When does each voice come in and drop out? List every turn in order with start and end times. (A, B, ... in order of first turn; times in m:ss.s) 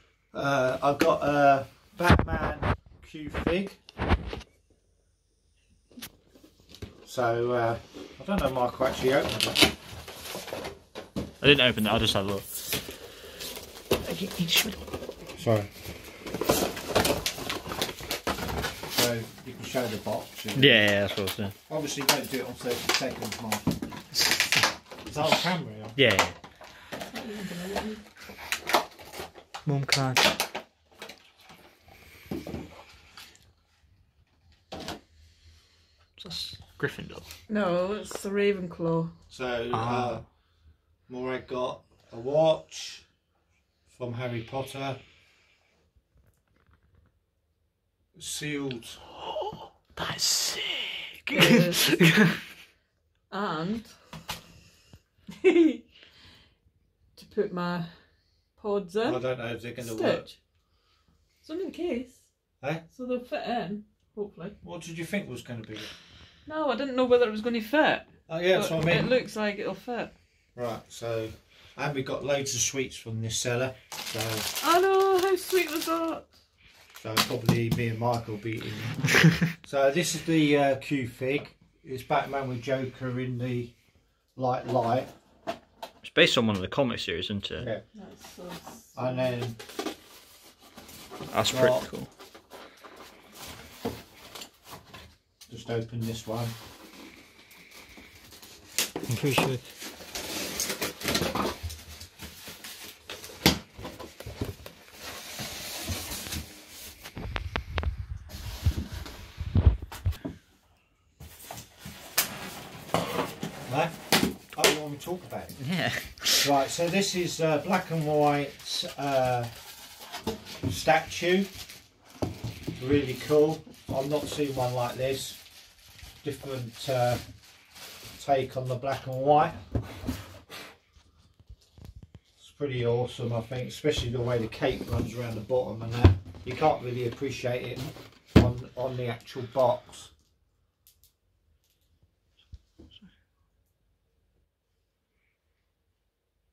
0:00.3-0:03.8 A
0:07.0-0:09.7 A
0:11.4-0:12.5 B
0:14.1-0:14.8 B
0:15.4-0:15.7 A
0:18.9-0:20.9 A
0:20.6-0:21.5 B
0:21.7-0:23.8 A
0:25.0-0:26.0 A
0:26.0-0:26.4 B
0:27.1-0:28.0 C
0:29.6-0:30.2 B
0:36.2-0:37.3 B
0:37.5-0:39.1 C
0:39.3-0:40.2 A
0:39.7-0:40.2 B
0:41.1-0:43.1 A
0:43.9-0:45.0 A
0:48.2-0:49.0 A
0:50.0-0:52.3 B
0:51.3-0:52.0 C
0:53.3-0:54.2 C
0:55.3-0:55.8 C
0:57.2-1:00.4 C
0:59.0-1:00.3 A
1:01.4-1:02.2 C
1:02.8-1:04.5 C
1:04.6-1:05.9 A
1:06.4-1:10.1 C
1:08.3-1:09.1 A
1:10.5-1:14.5 A
1:14.6-1:16.3 C
1:17.0-1:23.7 A
1:24.4-1:25.1 A
1:26.0-1:27.7 B
1:27.6-1:27.8 A
1:27.9-1:29.3 C
1:28.9-1:29.6 A
1:31.3-1:32.1 B
1:31.5-1:31.8 A
1:35.5-1:36.5 A
1:39.1-1:39.6 B
1:53.6-1:54.0 A
1:54.5-1:55.6 A
1:55.6-1:56.4 B
1:56.4-1:59.5 A
2:00.6-2:01.5 A
2:02.8-2:05.4 A
2:06.2-2:07.2 A
2:08.2-2:09.6 A
2:12.4-2:20.1 A